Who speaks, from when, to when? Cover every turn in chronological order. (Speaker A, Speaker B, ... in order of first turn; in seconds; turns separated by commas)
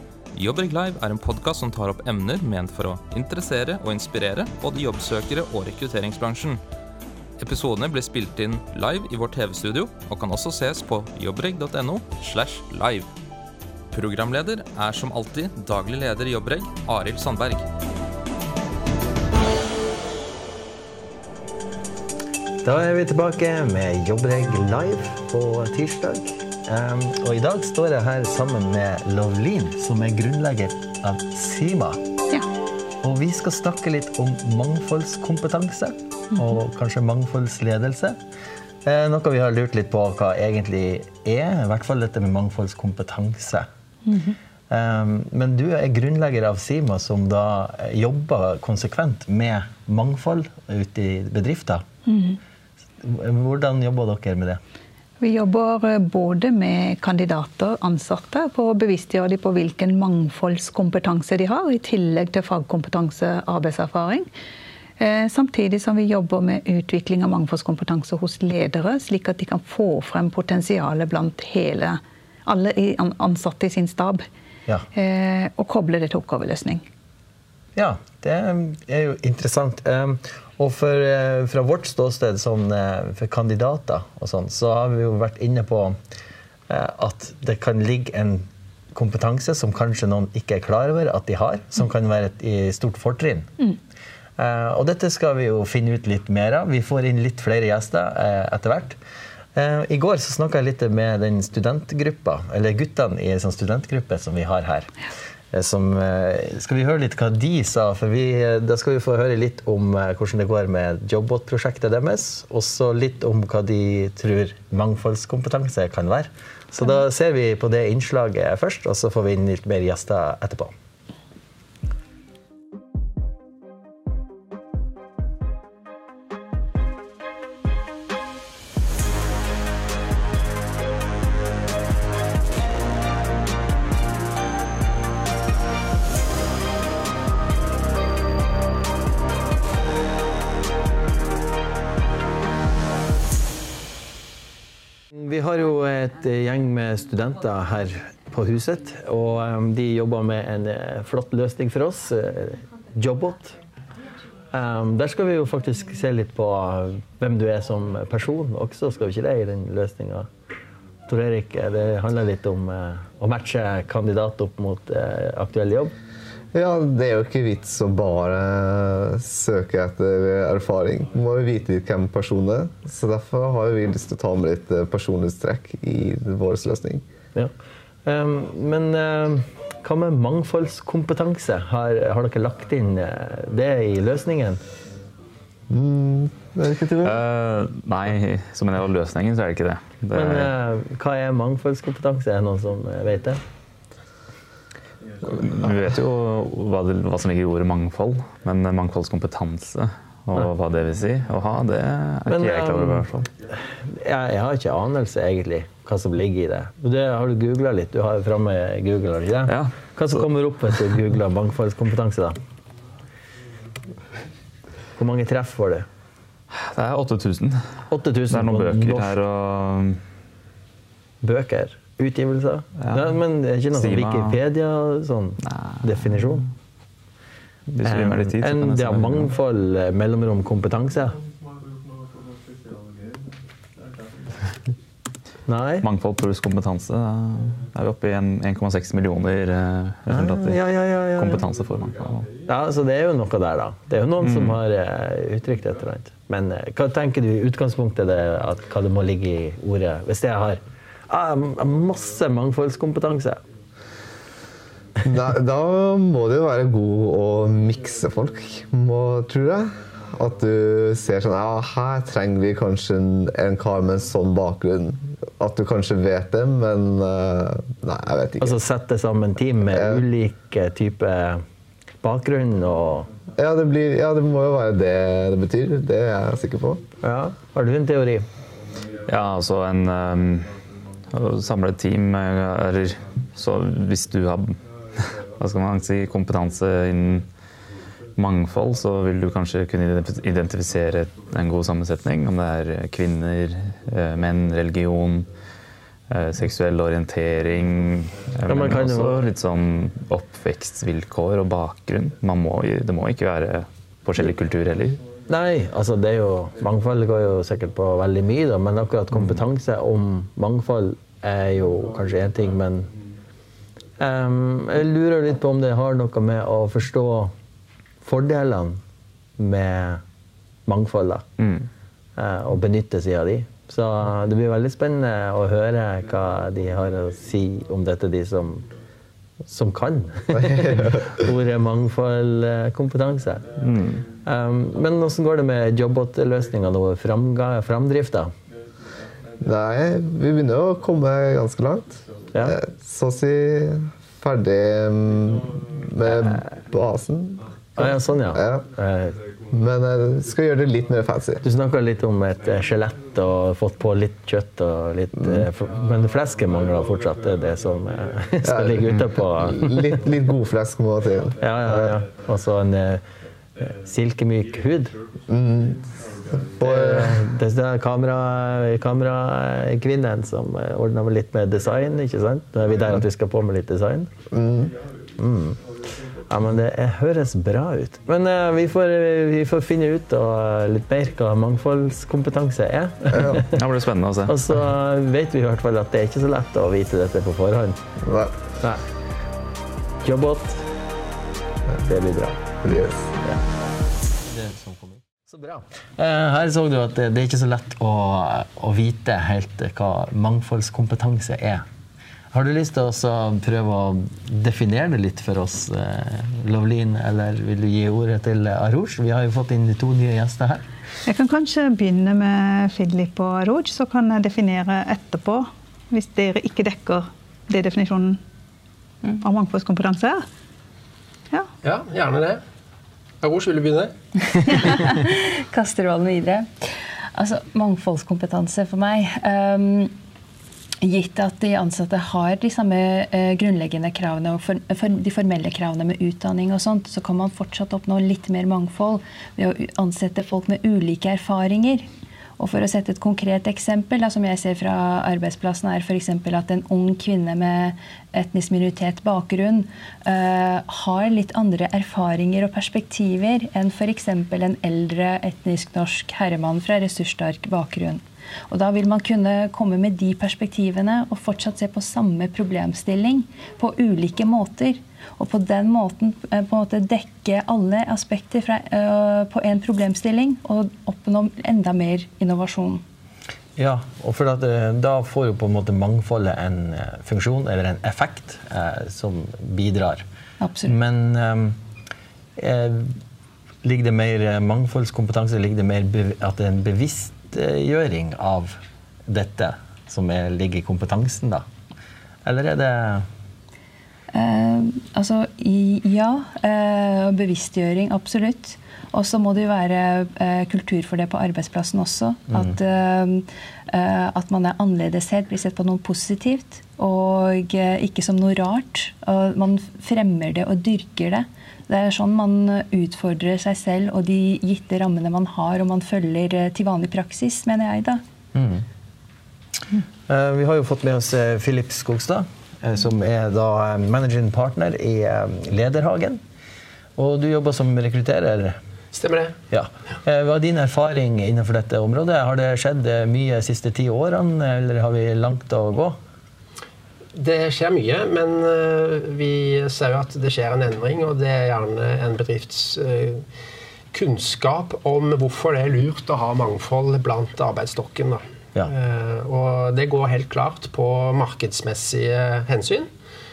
Speaker A: 0.3-6.6, Speaker A: 7.4-13.1, Speaker A: 13.9-17.7, Speaker B: 22.6-32.0, Speaker B: 33.0-38.2, Speaker B: 38.8-43.7, Speaker C: 44.1-44.4, Speaker B: 44.7-51.9, Speaker C: 52.1-52.4, Speaker B: 53.0-54.6, Speaker C: 55.2-64.3, Speaker C: 65.0-74.2, Speaker C: 74.9-76.8, Speaker B: 77.8-86.0, Speaker B: 86.7-93.5, Speaker B: 94.4-99.0, Speaker B: 99.5-104.9, Speaker B: 105.5-120.7, Speaker B: 145.1-153.6, Speaker B: 154.5-160.3, Speaker B: 161.1-165.9, Speaker D: 166.5-177.1, Speaker B: 178.1-184.6, Speaker D: 185.7-187.2, Speaker E: 187.0-190.5, Speaker B: 190.1-193.4, Speaker E: 195.2-203.1, Speaker B: 202.3-212.4, Speaker E: 209.5-209.8, Speaker B: 215.0-215.9, Speaker E: 216.5-220.0, Speaker B: 217.9-219.2, Speaker B: 221.2-226.5, Speaker E: 222.8-223.1, Speaker E: 223.7-224.4, Speaker E: 225.4-225.9, Speaker E: 227.7-229.3, Speaker B: 227.8-231.2, Speaker B: 235.5-235.9, Speaker E: 235.8-242.3, Speaker B: 240.1-241.4, Speaker B: 242.5-253.4, Speaker E: 244.2-244.6, Speaker D: 255.1-268.6, Speaker B: 268.4-271.4, Speaker D: 269.7-270.0, Speaker B: 272.0-273.1, Speaker D: 273.4-276.8, Speaker B: 277.0-278.3, Speaker E: 279.1-280.5, Speaker E: 281.1-284.6, Speaker E: 285.4-287.3, Speaker E: 288.2-295.3, Speaker E: 296.1-305.0, Speaker B: 298.4-299.3, Speaker B: 305.3-312.9, Speaker B: 314.0-317.3, Speaker B: 318.0-318.8, Speaker B: 319.4-320.0, Speaker B: 320.7-321.3, Speaker E: 321.4-321.7, Speaker B: 322.2-328.7, Speaker B: 329.5-333.6, Speaker D: 330.5-331.0, Speaker E: 333.6-334.0, Speaker B: 334.2-338.3, Speaker D: 339.4-348.7, Speaker B: 346.0-346.4, Speaker B: 347.8-349.2, Speaker D: 349.5-351.4, Speaker B: 351.4-360.1, Speaker D: 355.2-355.5, Speaker D: 358.4-361.9, Speaker B: 361.4-363.0, Speaker B: 363.6-364.9, Speaker D: 365.3-367.2, Speaker B: 366.6-374.1, Speaker D: 374.3-374.7, Speaker B: 375.2-375.6, Speaker B: 376.3-383.7, Speaker E: 383.3-384.4, Speaker B: 384.2-387.8, Speaker D: 388.0-388.4, Speaker B: 388.6-388.9, Speaker B: 390.0-390.7, Speaker B: 391.8-392.7, Speaker D: 392.6-393.1, Speaker B: 393.2-393.6, Speaker B: 394.1-401.6, Speaker B: 402.3-410.7, Speaker C: 411.1-418.2, Speaker C: 419.1-420.2, Speaker F: 421.6-422.4, Speaker F: 423.2-423.9, Speaker G: 424.6-429.9, Speaker G: 430.8-441.9, Speaker G: 442.4-472.8, Speaker B: 473.6-480.0, Speaker G: 480.4-480.8, Speaker B: 480.7-481.6, Speaker B: 482.4-483.0, Speaker B: 483.6-491.4, Speaker B: 492.2-493.1, Speaker G: 494.1-518.0, Speaker B: 518.4-518.6, Speaker B: 520.1-526.2, Speaker B: 527.0-528.6, Speaker F: 528.9-529.4, Speaker B: 529.5-536.0, Speaker F: 537.1-543.2, Speaker F: 543.9-552.9